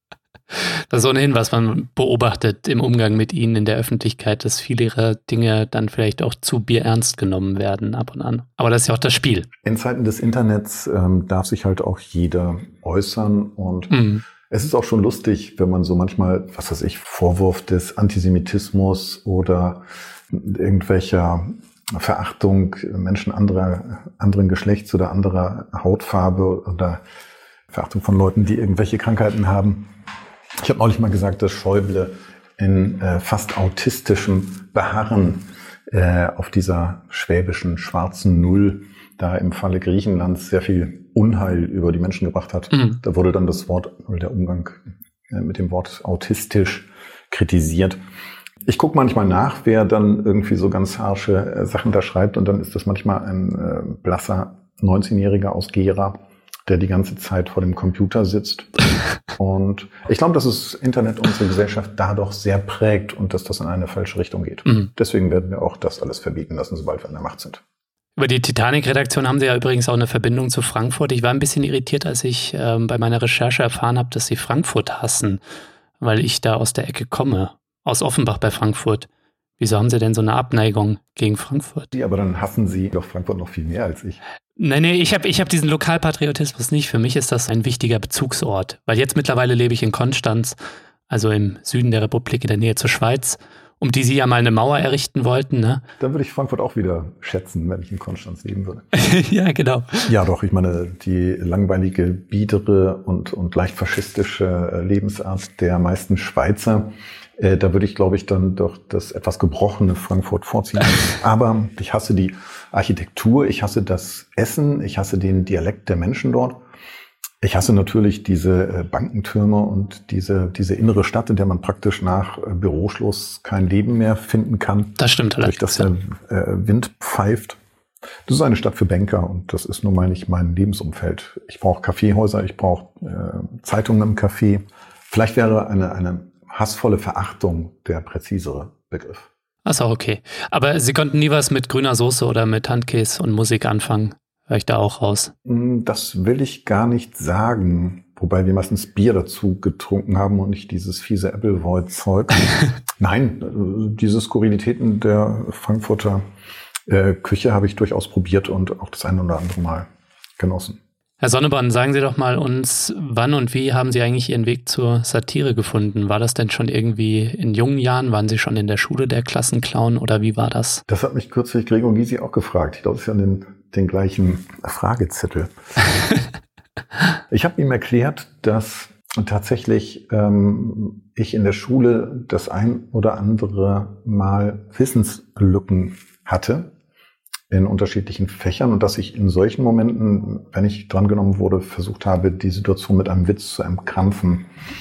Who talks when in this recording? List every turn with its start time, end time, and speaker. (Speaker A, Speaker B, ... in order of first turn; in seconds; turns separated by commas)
Speaker A: 0.9-9.5, Speaker B: 9.6-27.0, Speaker A: 13.9-14.2, Speaker B: 27.7-29.9, Speaker B: 30.6-48.0, Speaker A: 42.7-43.0, Speaker B: 48.6-67.6, Speaker A: 68.2-75.4, Speaker A: 76.0-79.1, Speaker A: 79.6-81.9, Speaker B: 81.9-84.2, Speaker A: 84.6-90.6, Speaker A: 91.1-95.8, Speaker B: 96.0-98.9, Speaker A: 98.9-100.1, Speaker B: 100.0-116.6, Speaker B: 117.4-127.6, Speaker A: 125.0-125.9, Speaker B: 128.3-139.3, Speaker A: 139.7-145.3, Speaker B: 145.4-156.2, Speaker B: 156.9-160.8, Speaker A: 161.2-170.8, Speaker B: 170.9-175.5, Speaker B: 177.3-186.7, Speaker B: 187.5-194.5